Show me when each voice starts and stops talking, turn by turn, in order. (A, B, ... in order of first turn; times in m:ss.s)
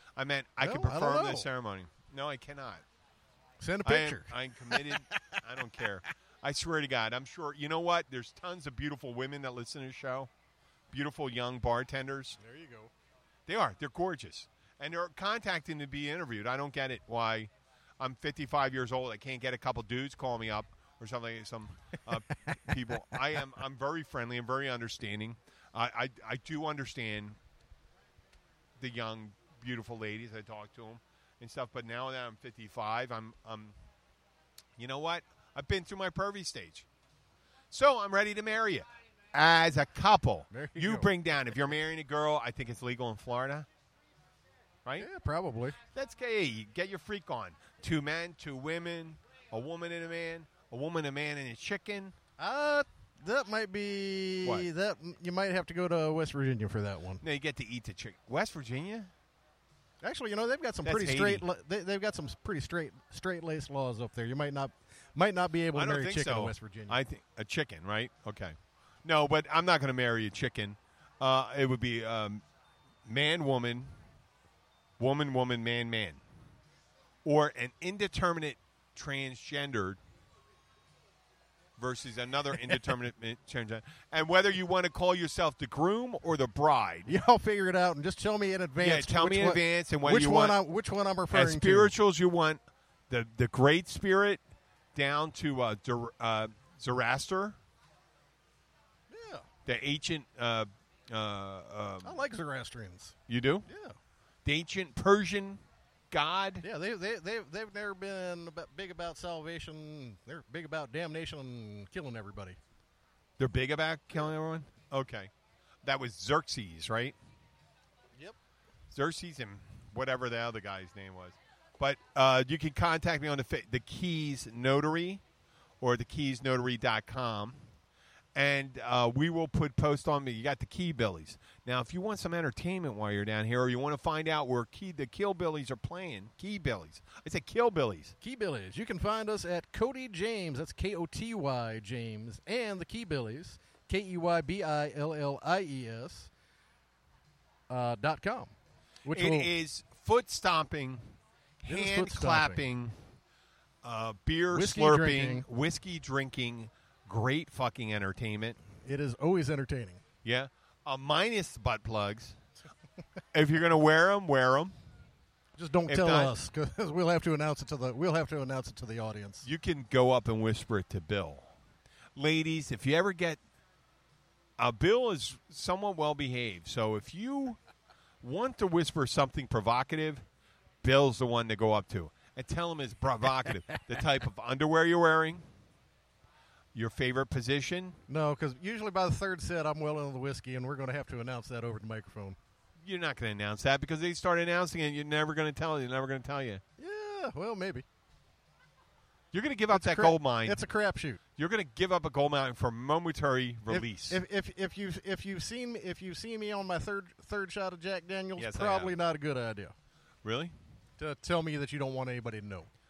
0:00.2-0:02.8 A
0:00.6-0:01.5 B
0:03.6-0:05.4 B
0:03.8-0:10.3 A
0:10.9-0:12.4 A
0:12.4-0:12.9 B
0:13.5-0:27.4 A
0:28.8-0:33.8 A
0:34.8-0:36.9 A
0:37.7-0:43.7 A
0:40.5-0:41.1 B
0:45.0-0:45.8 B
0:45.9-0:52.2 A
0:52.4-0:57.2 B
0:57.2-0:59.1 A
1:00.0-1:07.0 B
1:00.8-1:01.4 A
1:05.7-1:12.4 A
1:13.0-1:13.9 A
1:15.0-1:16.2 A
1:17.2-1:20.0 A
1:21.8-1:27.1 A
1:27.1-1:31.9 B
1:28.8-1:30.6 A
1:31.3-1:34.4 A
1:34.9-1:37.6 A
1:39.1-1:39.4 B
1:39.6-1:42.2 A
1:42.0-1:44.0 B
1:43.3-1:43.6 A
1:44.4-1:46.6 A
1:46.6-1:52.6 B
1:53.4-1:55.3 A
1:55.8-1:57.2 A
1:58.9-2:05.2 A
2:05.8-2:07.5 A
2:08.3-2:18.1 A
2:18.2-2:26.3 B
2:27.7-2:28.5 B
2:29.0-2:29.5 B
2:29.1-2:32.9 A
2:31.7-2:32.6 B
2:33.8-2:38.6 A
2:34.5-2:35.4 B
2:38.8-2:40.0 B
2:40.2-2:42.4 A
2:43.3-2:44.7 A
2:45.6-2:49.5 B
2:45.9-2:46.3 A
2:49.4-2:51.5 A
2:52.2-2:53.4 A
2:54.6-2:57.6 A
2:58.2-3:00.2 A
3:00.8-3:05.4 A
3:06.7-3:08.0 A
3:08.1-3:12.4 B
3:12.8-3:16.6 A
3:16.8-3:17.8 B
3:19.3-3:20.6 A
3:19.7-3:21.2 B
3:21.4-3:24.2 A
3:23.7-3:29.7 B
3:28.4-3:29.0 A
3:30.2-3:30.5 A
3:31.0-3:32.7 B